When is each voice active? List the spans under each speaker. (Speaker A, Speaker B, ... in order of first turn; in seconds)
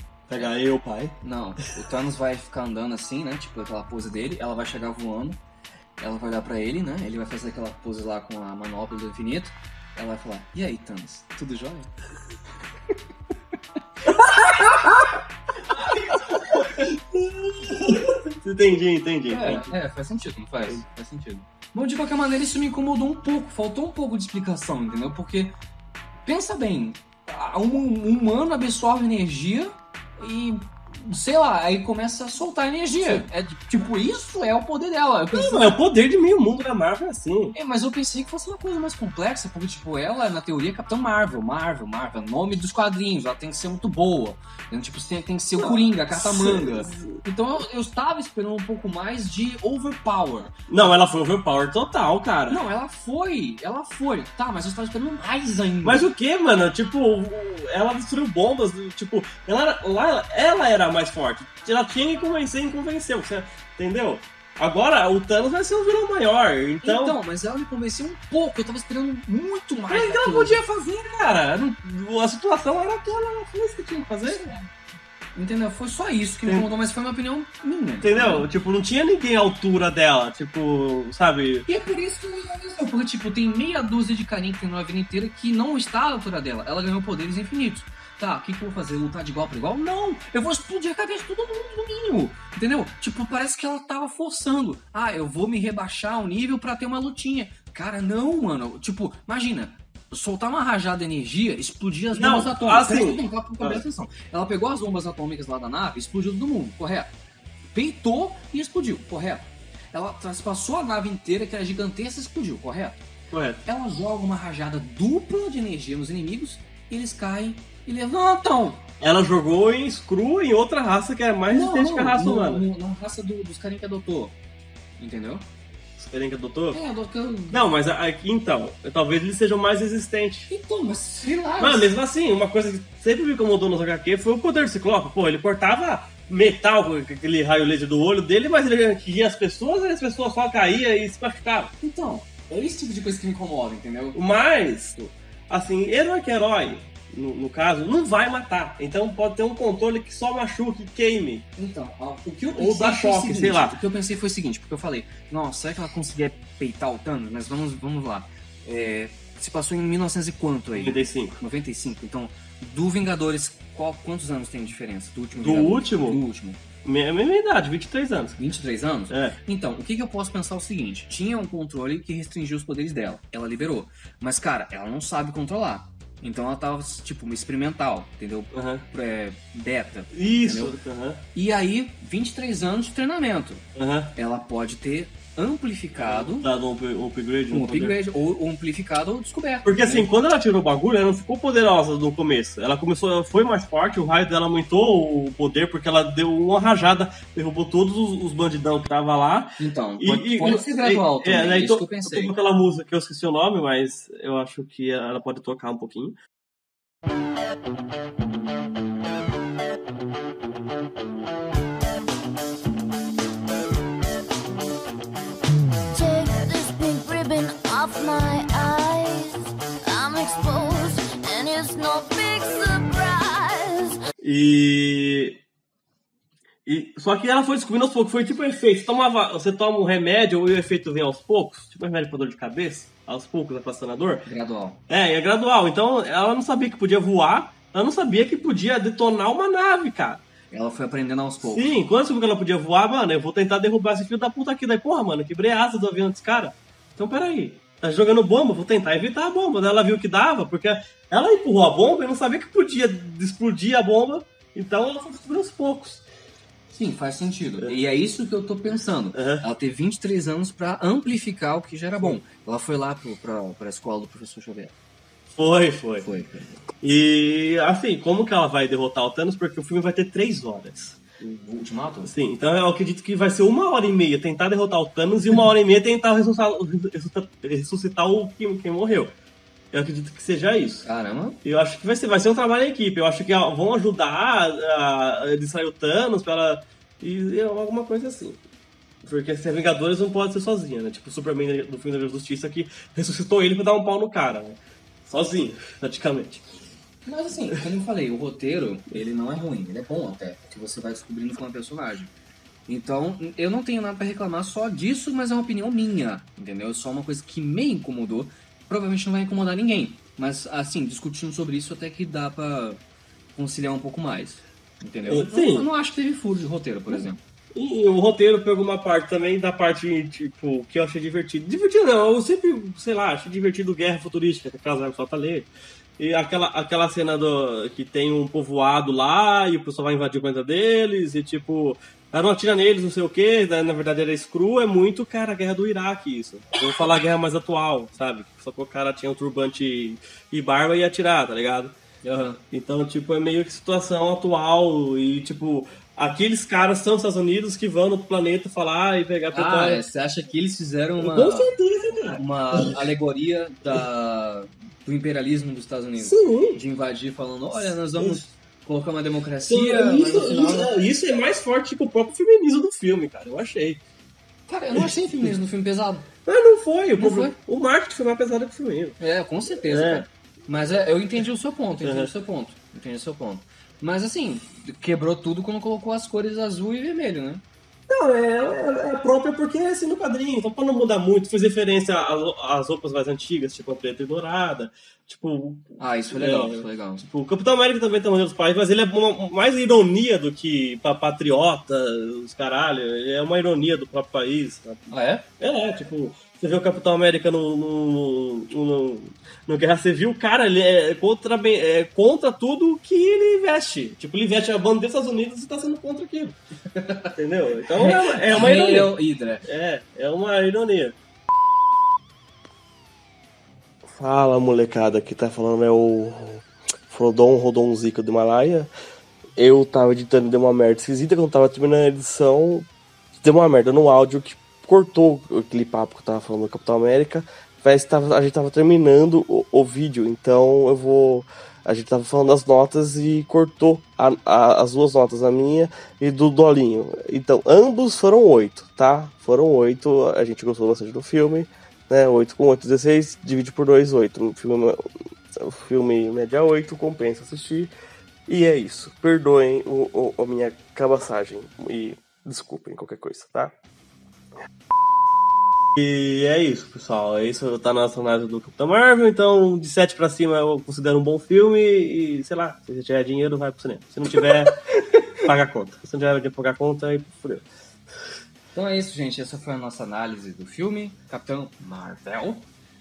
Speaker A: 0.3-1.2, 14.2-14.9, 16.3-19.7, 33.0-33.3, 35.3-37.5, 45.6-47.2, 50.7-52.6, 55.8-67.2, 69.9-74.4, 78.0-81.7, 102.1-103.8, 113.3-113.6, 119.0-122.6, 126.0-126.8, 127.5-130.5, 131.6-141.7, 144.1-151.5, 152.6-153.8, 160.7-161.4, 165.4-166.2, 166.8-168.4, 169.1-169.4, 178.5-178.8, 180.1-181.3, 183.8-184.2, 186.0-188.0, 189.6-206.2, 224.2-225.4, 226.7-234.3, 234.9-240.2, 241.4-256.1, 259.1-259.4, 265.4-266.1, 266.8-271.0, 272.0-279.1, 279.7-280.9, 281.4-288.4, 289.0-296.4, 315.1-315.7, 316.9-341.8, 342.5-349.8, 351.0-352.8, 356.0-356.6, 357.9-358.2, 359.5-363.8, 366.2-369.0, 369.7-370.1, 371.8-372.1, 377.9-406.4, 407.1-410.9, 413.9-418.7, 419.4-422.7, 423.2-447.7, 448.3-453.5, 455.7-464.6, 465.2-467.4
Speaker B: 1.2-5.4, 6.0-11.9, 14.0-15.1, 15.7-16.9, 19.3-25.6, 26.2-35.8, 37.5-50.7, 52.5-56.1, 66.8-70.6, 74.2-74.7, 75.3-78.5, 81.7-107.1, 107.7-113.0, 113.6-118.8, 121.5-124.3, 125.0-125.5, 126.7-127.6, 130.5-131.9, 141.8-144.2, 151.6-166.6, 168.4-180.8, 181.3-186.5, 187.5-190.1, 199.6-202.3, 234.2-234.8, 240.5-241.8, 256.7-264.7, 266.0-266.6, 271.2-272.1, 280.8-281.4, 297.0-302.1, 302.7-312.8, 313.4-317.2, 342.0-342.4, 349.3-351.5, 352.1-360.7, 364.5-366.1, 366.9-367.4, 369.0-377.4, 385.8-387.0, 394.9-395.3, 406.7-409.4, 468.5-472.5
Speaker C: 215.9-224.0